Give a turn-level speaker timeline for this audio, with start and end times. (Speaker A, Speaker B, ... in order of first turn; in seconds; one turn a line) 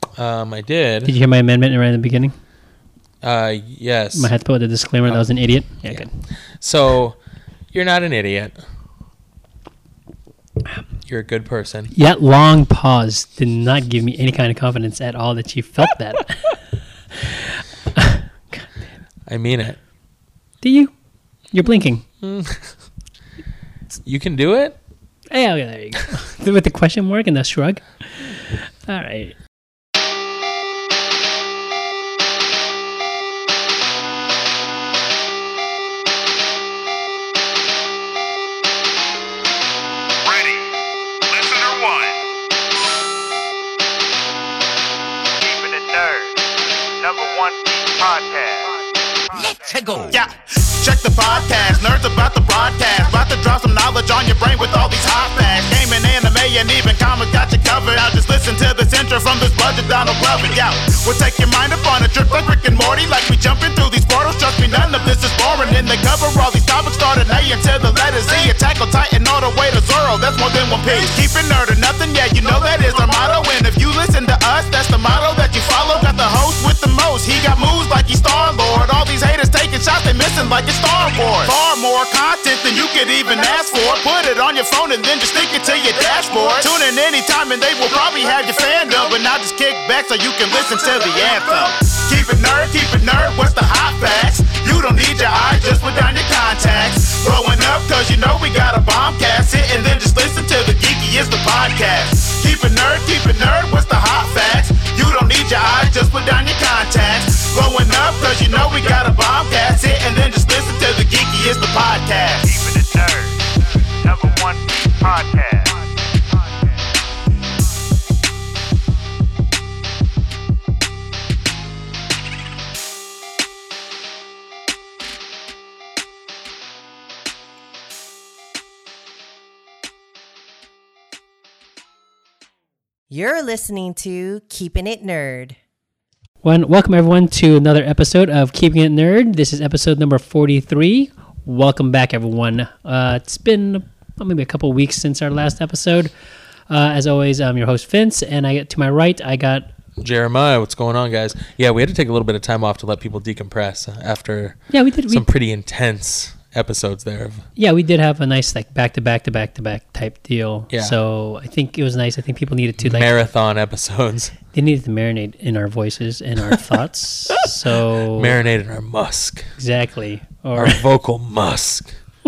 Speaker A: 0.1-1.1
Speaker B: 1.0-2.3
Speaker A: 3.2-4.3
Speaker B: 4.1-6.1
Speaker A: 6.6-7.2
Speaker A: 7.7-8.6
Speaker A: 11.1-11.9
Speaker B: 11.9-16.5
Speaker B: 17.9-18.7
Speaker A: 19.3-19.8
Speaker B: 20.6-20.9
Speaker B: 21.5-22.0
Speaker A: 22.2-22.7
Speaker A: 24.0-24.8
Speaker B: 25.3-29.4
Speaker C: 40.3-40.6
Speaker C: 41.3-42.2
Speaker C: 45.4-50.2
Speaker D: 50.1-112.5
Speaker C: 112.4-116.9
Speaker E: 133.1-135.6
Speaker B: 136.4-146.1
Speaker B: 146.7-149.7
Speaker A: 150.0-157.4
Speaker B: 154.7-155.3
Speaker B: 157.6-163.1
Speaker A: 162.8-164.3
Speaker B: 164.5-168.3
Speaker A: 168.1-169.5
Speaker B: 169.6-170.8
Speaker A: 170.6-171.9